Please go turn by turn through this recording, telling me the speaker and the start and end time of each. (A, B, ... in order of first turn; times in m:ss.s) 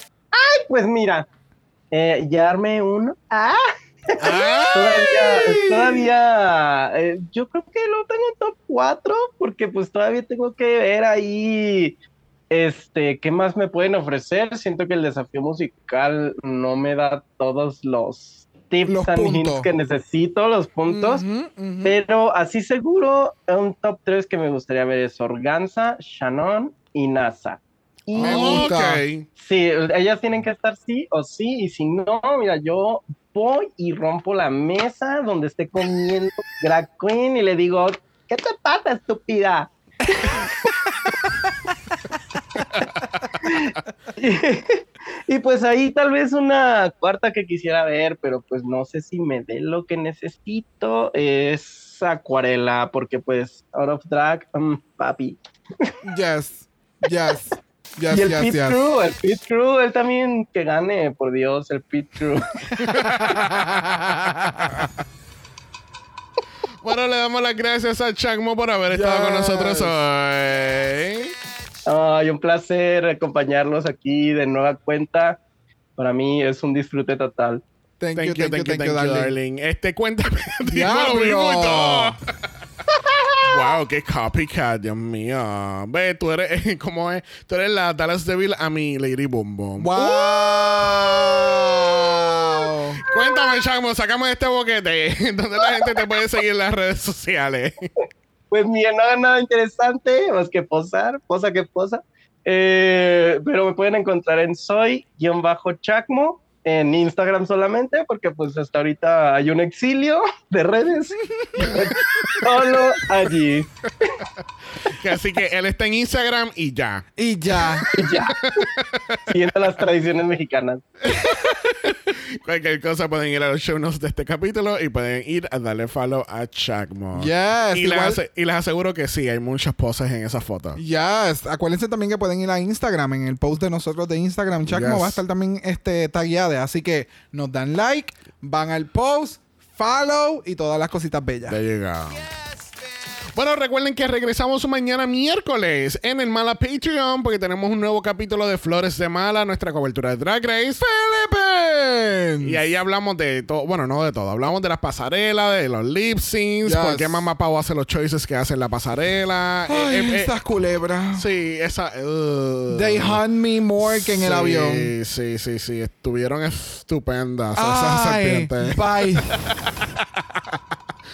0:00.3-0:01.3 A
0:01.9-0:12.0 A
0:04.2-0:05.0 B
0:04.3-0:06.1 C
0:12.5-0:21.2 A
0:18.9-0:19.7 C
0:20.8-0:22.0 C
0:21.8-0:28.7 A
0:28.1-0:29.2 B
0:28.2-0:29.0 C
0:29.4-0:40.5 A
0:42.6-0:43.3 B
0:43.4-0:55.9 A
0:56.0-0:58.8 C
0:58.1-1:02.5 A
1:02.8-1:04.8 C
1:02.8-1:03.4 B
1:06.8-1:11.3 B
1:08.9-1:10.0 C
1:11.8-1:15.4 A
1:16.0-1:17.6 A
1:18.0-1:19.3 C
1:18.2-1:22.2 B
1:20.6-1:22.2 C
1:23.4-1:31.2 B
1:29.8-1:33.0 C
1:33.0-1:37.9 B
1:38.5-1:54.2 A
1:51.2-1:52.2 C
1:54.8-1:57.1 B
1:57.2-1:57.8 C
1:57.9-1:58.6 A
1:58.4-1:59.3 B
1:59.3-2:00.8 A
2:01.1-2:01.8 C
2:01.1-2:10.8 B
2:07.1-2:08.2 C
2:10.8-2:21.6 C
2:14.6-2:15.2 B
2:21.5-2:22.3 B
2:23.3-2:30.8 B
2:30.8-2:32.6 C
2:32.4-2:40.3 B
2:36.6-2:37.3 C
2:39.7-2:41.2 C
2:41.1-2:43.2 B
2:42.7-2:44.9 C
2:43.8-2:50.6 B
2:47.5-2:49.4 C